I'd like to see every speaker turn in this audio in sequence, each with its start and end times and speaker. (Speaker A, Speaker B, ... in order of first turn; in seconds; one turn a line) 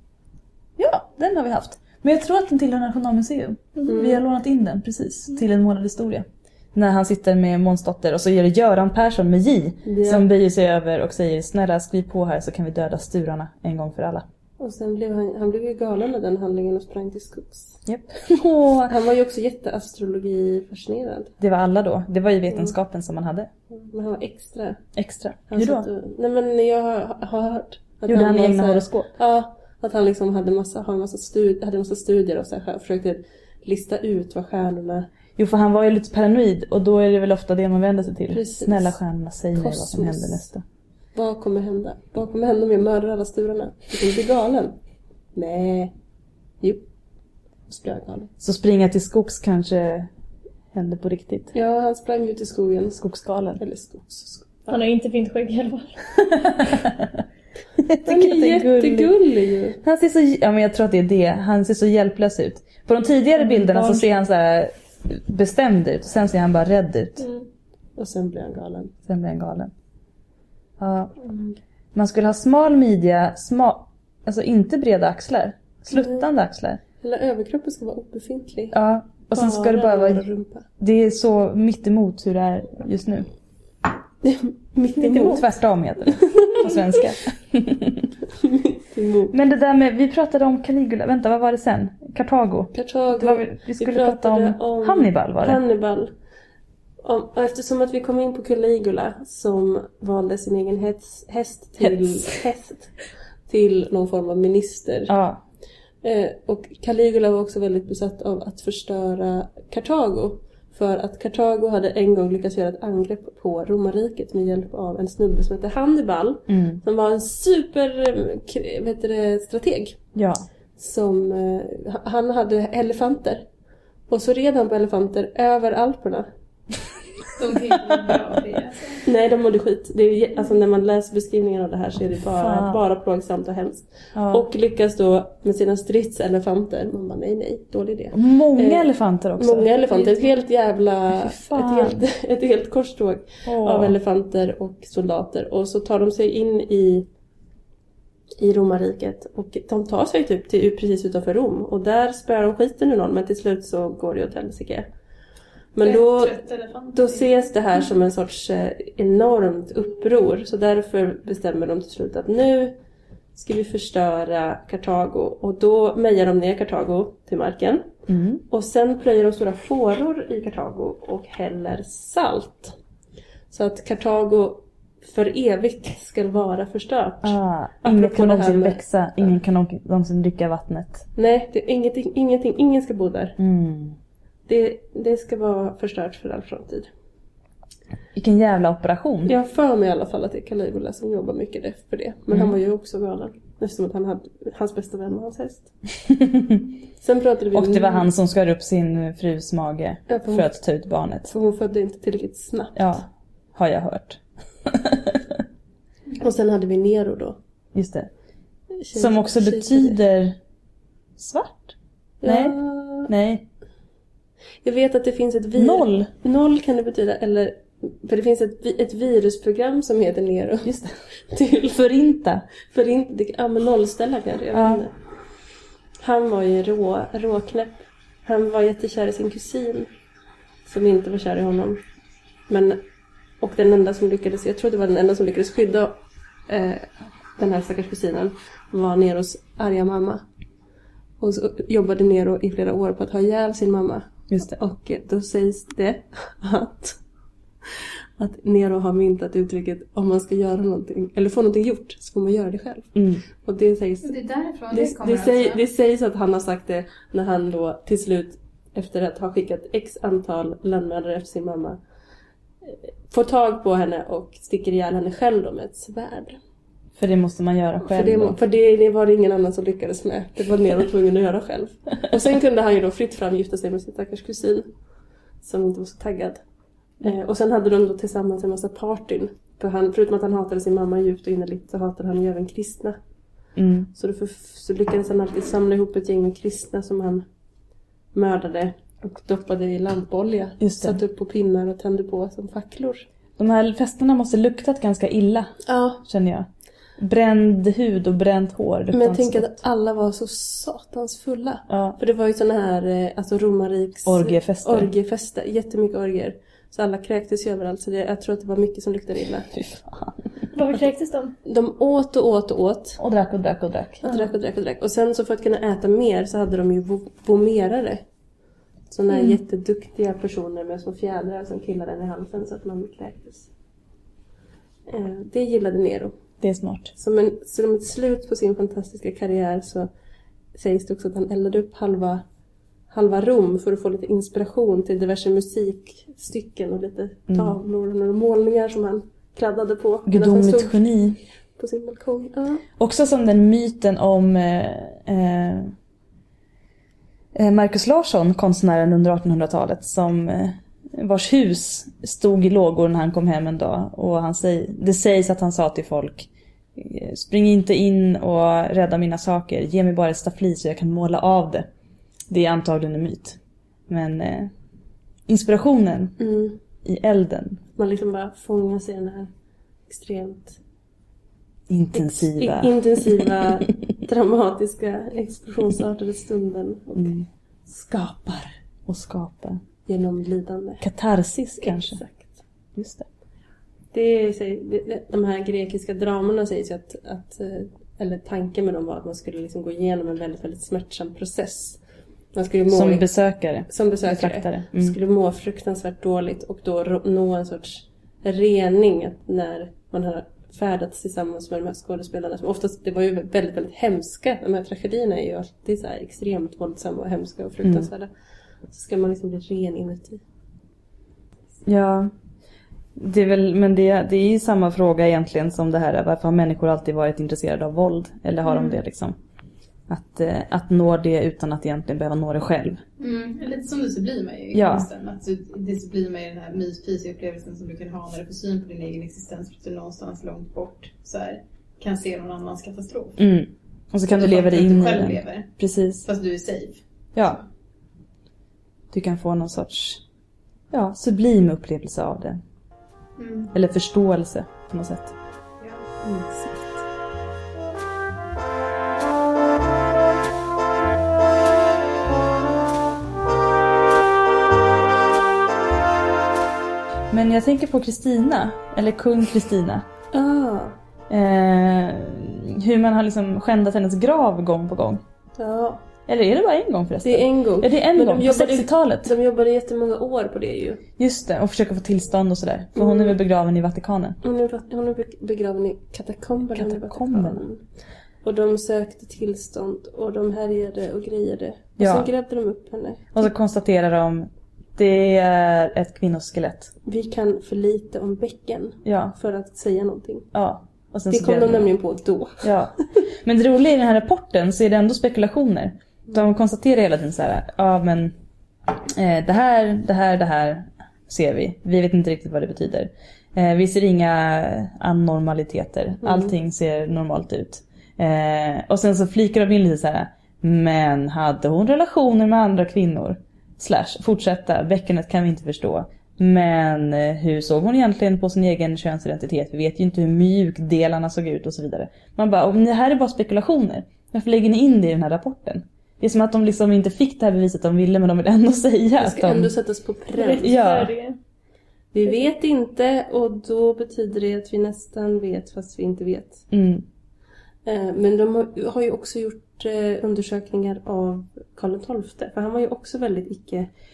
Speaker A: 0.8-14.2
Speaker B: 3.8-4.2
Speaker B: 9.8-10.3
Speaker B: 14.6-17.8
Speaker A: 17.9-18.9
Speaker B: 18.9-21.3
Speaker A: 21.4-23.5
Speaker B: 23.7-24.8
Speaker A: 24.9-25.9
Speaker B: 25.5-35.1
Speaker A: 28.1-29.1
Speaker A: 35.4-40.6
Speaker B: 38.3-39.0
Speaker B: 39.5-40.5
Speaker B: 41.1-44.7
Speaker B: 45.3-45.9
Speaker B: 47.7-48.3
Speaker A: 48.4-50.1
Speaker A: 50.7-51.5
Speaker B: 51.5-53.0
Speaker A: 53.0-53.6
Speaker B: 53.6-54.8
Speaker C: 54.7-55.9
Speaker A: 56.4-56.9
Speaker A: 57.8-59.1
Speaker B: 58.0-59.8
Speaker A: 59.8-67.2
Speaker C: 63.4-64.0
Speaker B: 68.0-68.9
Speaker A: 69.1-69.7
Speaker A: 70.8-71.1
Speaker B: 71.2-71.5
Speaker A: 71.9-76.8
Speaker B: 75.9-76.2
Speaker B: 77.0-78.8
Speaker A: 78.7-80.2
Speaker B: 79.3-80.7
Speaker A: 80.8-83.2
Speaker B: 84.2-85.5
Speaker A: 85.0-88.1
Speaker B: 86.3-86.7
Speaker B: 88.4-89.3
Speaker A: 89.3-95.6
Speaker B: 92.7-96.1
Speaker B: 97.0-102.9
Speaker A: 101.8-102.3
Speaker B: 103.5-105.1
Speaker A: 105.1-105.4
Speaker B: 106.0-120.0
Speaker A: 116.5-116.8
Speaker A: 120.1-120.4
Speaker B: 120.8-123.5
Speaker B: 124.1-126.3
Speaker D: 127.4-129.0
Speaker B: 129.0-147.1
Speaker A: 132.3-132.8
Speaker A: 134.1-134.4
Speaker A: 138.1-140.3
Speaker A: 141.1-142.0
Speaker A: 143.4-143.9
Speaker B: 148.4-154.9
Speaker B: 155.7-156.4
Speaker D: 155.8-157.3
Speaker B: 156.9-162.8
Speaker B: 163.3-167.9
Speaker A: 168.1-168.4
Speaker B: 168.5-172.7
Speaker B: 173.5-178.8
Speaker A: 177.2-181.1
Speaker B: 181.2-183.4
Speaker A: 183.4-184.0
Speaker B: 184.5-186.9
Speaker A: 188.1-189.3
Speaker B: 189.2-195.7
Speaker A: 196.1-196.6
Speaker B: 197.0-198.1
Speaker A: 197.5-201.3
Speaker B: 200.1-200.5
Speaker B: 201.3-202.9
Speaker A: 202.8-205.4
Speaker B: 206.2-207.4
Speaker A: 207.7-208.1
Speaker B: 208.8-209.9
Speaker A: 208.9-210.4
Speaker A: 211.2-213.5
Speaker B: 212.2-213.1
Speaker B: 214.6-220.7
Speaker A: 215.6-216.1
Speaker A: 220.6-221.0
Speaker B: 221.3-221.9
Speaker A: 221.8-222.4
Speaker B: 222.6-224.9
Speaker A: 224.5-224.8
Speaker B: 226.0-229.9
Speaker B: 230.7-231.8
Speaker B: 232.5-232.8
Speaker B: 233.4-240.2
Speaker B: 241.2-247.0
Speaker A: 244.3-244.6
Speaker B: 248.2-254.1
Speaker A: 252.9-253.2
Speaker D: 254.0-255.6
Speaker B: 254.7-261.8
Speaker B: 262.6-266.4
Speaker A: 266.9-268.4
Speaker B: 267.8-274.7
Speaker B: 275.4-276.4
Speaker B: 277.0-283.0
Speaker A: 283.6-283.9
Speaker B: 283.9-287.2
Speaker B: 288.1-293.1
Speaker A: 290.6-291.0
Speaker A: 293.4-296.5
Speaker B: 295.6-296.0
Speaker A: 297.0-299.5
Speaker B: 298.9-309.5
Speaker A: 301.7-302.0
Speaker A: 304.1-304.9
Speaker A: 309.5-310.2
Speaker C: 310.5-311.4
Speaker B: 311.4-313.0
Speaker A: 313.0-314.3
Speaker B: 314.0-318.0
Speaker B: 318.9-323.5
Speaker B: 324.9-326.1
Speaker A: 326.4-326.9
Speaker B: 326.9-329.9
Speaker B: 330.5-332.2
Speaker B: 332.9-340.8
Speaker A: 337.3-337.6
Speaker A: 340.1-341.2
Speaker B: 341.6-342.6
Speaker A: 342.8-345.7
Speaker A: 347.3-361.7
Speaker A: 362.3-363.4
Speaker A: 363.9-364.5
Speaker A: 365.3-366.1
Speaker B: 366.2-366.6
Speaker A: 366.8-367.6
Speaker B: 367.8-369.3
Speaker B: 369.9-370.6
Speaker A: 371.7-373.3
Speaker B: 371.9-377.1
Speaker A: 376.9-377.2
Speaker B: 377.7-378.6
Speaker A: 378.9-379.6
Speaker B: 379.9-380.9
Speaker A: 380.8-382.0
Speaker B: 381.6-382.4
Speaker A: 382.7-383.1
Speaker B: 383.9-391.8
Speaker B: 392.3-393.1
Speaker A: 392.7-395.0
Speaker B: 393.7-408.1
Speaker B: 408.7-410.2
Speaker A: 411.6-412.1
Speaker A: 412.9-419.1
Speaker D: 418.4-418.8
Speaker A: 419.9-422.8
Speaker D: 423.0-433.2
Speaker A: 424.5-424.9
Speaker A: 433.2-436.0
Speaker D: 434.1-435.5
Speaker D: 436.0-437.4
Speaker A: 437.1-437.4
Speaker A: 438.9-440.0
Speaker A: 440.7-442.4
Speaker D: 443.2-443.5
Speaker A: 443.5-445.1
Speaker D: 445.6-445.8
Speaker B: 446.0-446.8
Speaker A: 457.1-459.9
Speaker B: 460.1-460.7
Speaker A: 461.1-465.0
Speaker B: 465.4-465.8
Speaker A: 466.1-469.1
Speaker B: 467.0-470.8
Speaker A: 471.0-474.2
Speaker B: 472.8-473.1
Speaker B: 474.2-477.6
Speaker A: 476.5-477.4
Speaker B: 478.2-483.1
Speaker A: 481.8-482.1
Speaker A: 483.1-486.7
Speaker B: 486.8-490.3
Speaker A: 488.8-489.1
Speaker A: 490.3-491.7
Speaker B: 491.1-492.5
Speaker A: 492.4-498.1
Speaker A: 498.8-529.5
Speaker B: 506.0-506.3
Speaker B: 529.0-530.5
Speaker C: 530.1-531.2
Speaker A: 530.4-530.9
Speaker B: 531.9-536.4
Speaker A: 536.5-536.9
Speaker B: 537.6-543.7